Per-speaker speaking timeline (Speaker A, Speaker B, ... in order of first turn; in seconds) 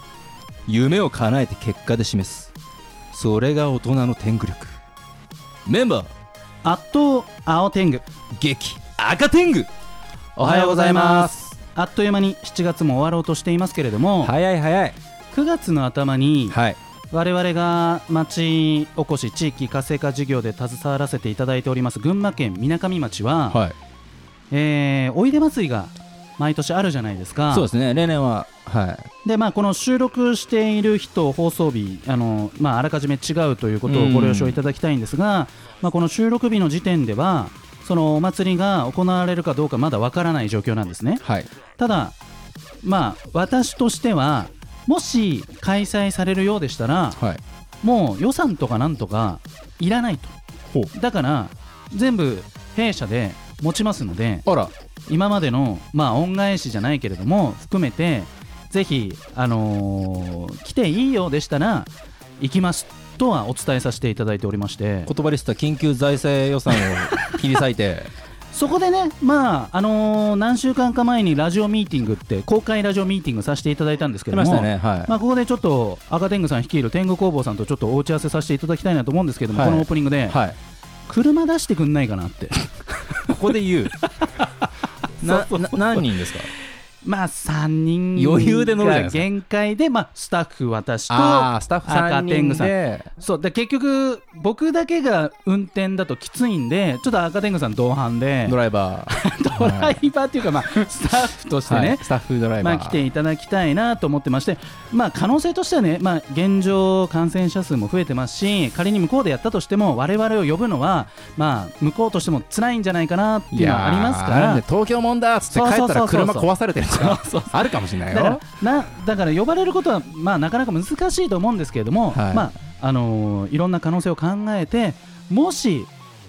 Speaker A: 0.7-2.5, 3.1-4.8, 5.6-6.1, 8.3-9.7, 10.3-11.6, 14.2-15.0, 16.5-16.8, 23.5-23.7, 27.5-29.1, 33.9-34.6, 41.2-41.5, 47.1-47.4, 54.5-54.7, 65.0-68.1, 74.3-75.2, 79.5-80.5, 83.3-83.9, 85.2-86.5, 88.2-89.2, 91.1-93.1, 98.4-100.0, 101.6-103.0, 113.5-118.4, 122.1-122.5
Speaker B: 6.6-8.1, 10.4-14.3, 15.3-16.6, 17.1-23.6, 24.5-27.7, 29.2-41.2, 41.8-42.2, 42.8-47.2, 47.8-50.4, 50.9-54.5, 55.1-65.1, 68.5-80.4, 81.1-82.7, 84.2-84.7, 85.2-86.0, 87.0-98.6, 99.1-102.1, 102.6-114.6, 115.5-125.9